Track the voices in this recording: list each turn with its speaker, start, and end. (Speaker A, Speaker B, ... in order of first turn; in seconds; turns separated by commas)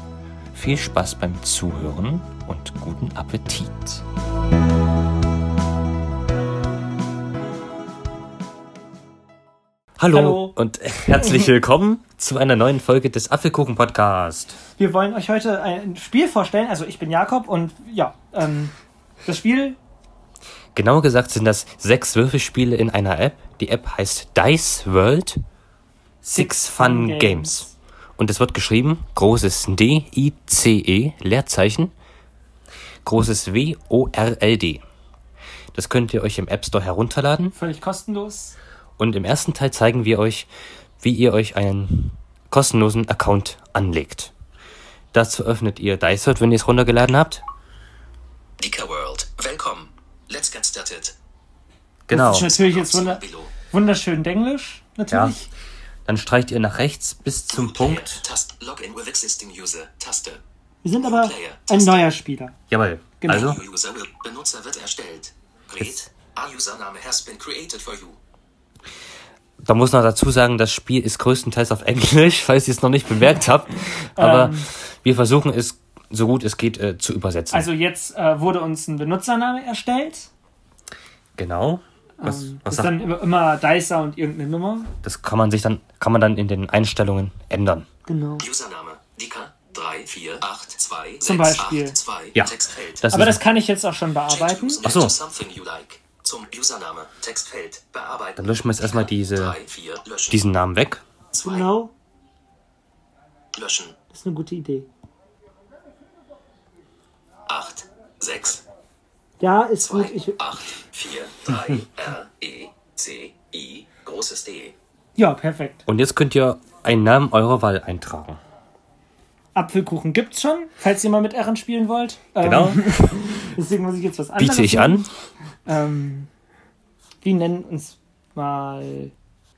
Speaker A: 0.5-4.0, Speaker A: 10.0-14.6, Speaker B: 10.1-10.5, Speaker B: 14.8-18.7, Speaker B: 19.2-19.8, Speaker A: 20.7-25.4, Speaker A: 26.2-27.7, Speaker B: 26.2-27.7, Speaker A: 28.2-31.9, Speaker A: 33.0-34.8, Speaker A: 35.7-37.5, Speaker B: 37.5-38.5, Speaker A: 39.0-40.5, Speaker A: 41.0-44.3, Speaker A: 45.1-47.4, Speaker C: 48.6-51.1, Speaker A: 52.1-52.6, Speaker B: 52.1-55.5, Speaker C: 52.4-53.5, Speaker A: 55.1-55.4, Speaker A: 56.0-58.2, Speaker C: 57.5-60.4, Speaker B: 60.8-62.5, Speaker C: 61.0-62.1, Speaker A: 62.7-63.6, Speaker B: 63.2-63.5, Speaker C: 63.3-68.2, Speaker A: 69.6-77.7, Speaker B: 74.2-74.7, Speaker B: 77.5-80.3, Speaker A: 81.4-83.0, Speaker B: 82.2-84.9, Speaker A: 85.0-87.8, Speaker B: 88.1-88.5, Speaker C: 88.4-93.1, Speaker B: 91.2-92.0, Speaker A: 92.3-93.4, Speaker B: 93.1-94.8, Speaker C: 94.3-100.4, Speaker A: 94.8-95.1, Speaker A: 98.4-99.6, Speaker A: 100.3-101.0, Speaker C: 101.3-101.7, Speaker B: 101.4-101.9, Speaker C: 103.5-104.0, Speaker B: 104.1-104.9, Speaker C: 107.5-108.6, Speaker B: 109.4-110.4, Speaker C: 109.8-114.7, Speaker B: 115.2-115.8, Speaker A: 115.9-118.4, Speaker B: 119.5-125.1, Speaker A: 122.4-122.9, Speaker A: 124.4-125.1, Speaker B: 125.7-126.3, Speaker B: 127.2-129.1